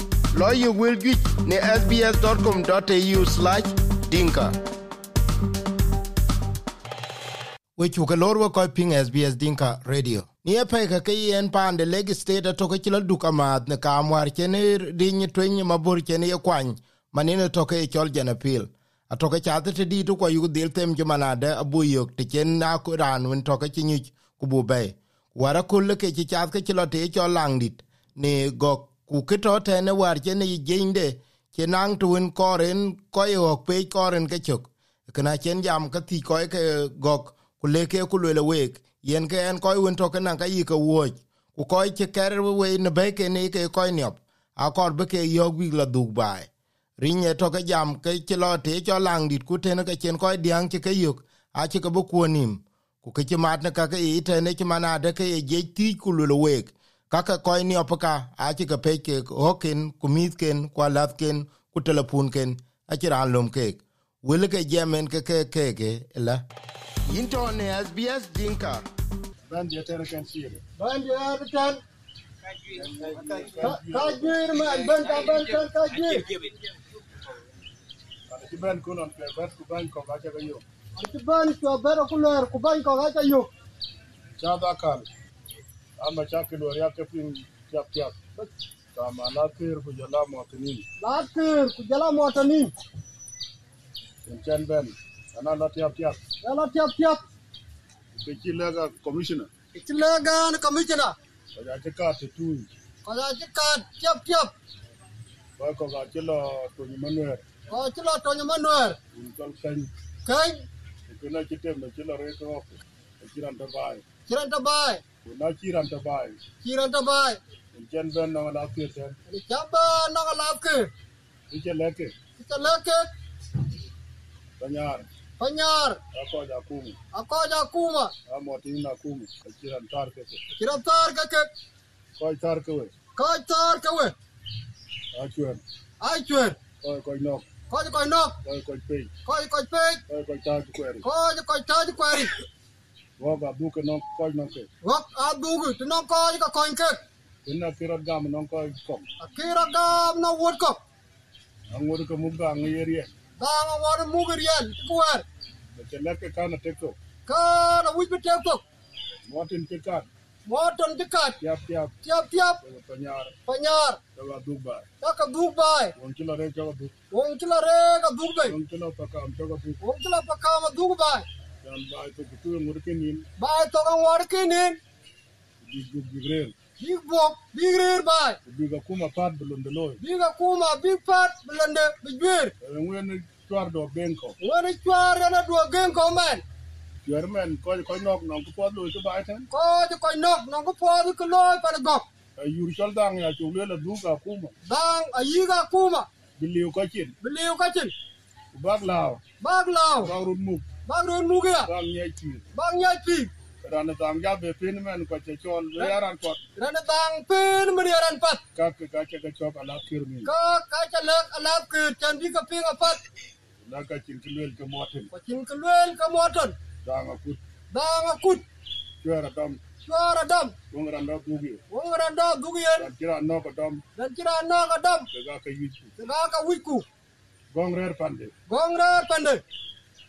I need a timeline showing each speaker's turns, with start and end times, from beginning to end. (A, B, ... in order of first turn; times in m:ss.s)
0:00.3-0:04.5 A
0:07.8-1:06.4 A
1:07.0-1:08.8 A
1:09.5-1:10.6 B
1:10.8-1:11.8 C
1:12.7-1:14.4 B
1:13.6-1:16.3 C
1:18.3-1:20.6 B
1:20.9-1:23.5 C
1:24.4-1:25.1 B
1:26.0-1:28.2 B
1:28.9-1:30.8 B
1:31.0-1:32.7 C
1:34.2-1:36.2 B
1:36.4-1:37.2 C
1:38.1-1:39.5 B
1:39.7-1:41.1 C
1:41.5-1:42.7 B
1:43.0-1:44.5 C
1:45.6-1:47.4 B
1:47.7-1:49.0 C
1:49.1-1:49.9 B
1:50.2-1:50.6 C
1:51.1-1:54.0 B
1:54.3-1:55.0 C
1:55.2-1:56.4 B
1:56.6-1:57.4 C
1:57.7-1:59.2 B
1:59.3-2:00.9 C
2:01.5-2:02.1 B
2:02.4-2:03.1 C
2:04.6-2:05.0 B
2:05.4-2:06.0 C
2:06.1-2:07.0 B
2:07.1-2:08.1 C
2:08.3-2:10.4 B
2:10.5-2:11.5 C
2:12.2-2:12.9 B
2:13.1-2:14.1 C
2:15.1-2:15.6 B
2:16.0-2:16.6 C
2:16.8-2:17.4 B
2:17.7-2:18.4 C
2:18.4-2:19.1 B
2:19.2-2:20.0 C
2:20.1-2:21.0 B
2:21.0-2:22.3 C
2:23.2-2:24.7 B
2:24.8-2:27.0 C
2:27.4-2:29.0 B
2:29.2-2:30.8 C
2:31.7-2:33.1 B
2:33.4-2:35.2 C
2:35.8-2:36.9 B
2:37.2-2:38.6 C
2:39.3-2:40.1 B
2:40.4-2:41.4 C
2:41.4-2:41.9 B
2:42.0-2:42.6 C
2:42.6-2:43.3 B
2:43.4-2:44.0 C
2:44.2-2:44.9 B
2:45.0-2:45.9 C
2:46.0-2:46.9 B
2:47.1-2:48.6 C
2:48.4-2:49.8 B
2:49.8-2:51.3 C
2:51.6-2:53.3 B
2:53.4-2:54.8 C
2:55.6-2:56.5 B
2:56.8-2:58.4 C
2:58.4-3:00.0 B
3:00.0-3:02.5 C
3:02.6-3:04.4 B
3:04.4-3:06.4 C
3:07.0-3:09.5 B
3:09.5-3:12.0 C
3:12.4-3:14.5 B
3:14.6-3:16.1 C
3:16.4-3:17.1 B
3:17.2-3:17.9 C
3:18.5-3:19.2 B
3:19.4-3:20.1 C
3:20.0-3:20.7 B
3:20.8-3:21.7 C
3:21.6-3:22.4 B
3:22.5-3:23.3 C
3:23.6-3:26.4 B
3:26.6-3:28.4 C
3:28.5-3:30.3 B
3:30.2-3:33.0 C
3:33.6-3:35.1 B
3:35.1-3:36.6 C
3:36.8-3:37.4 B
3:37.7-3:38.4 C
3:39.0-3:39.6 B
3:39.8-3:40.5 C
3:40.7-3:41.6 B
3:41.7-3:42.9 C
3:42.8-3:43.8 B
3:44.0-3:45.1 C
3:45.1-3:45.9 B
3:46.0-3:46.8 C
3:47.5-3:48.3 B
3:48.5-3:49.4 C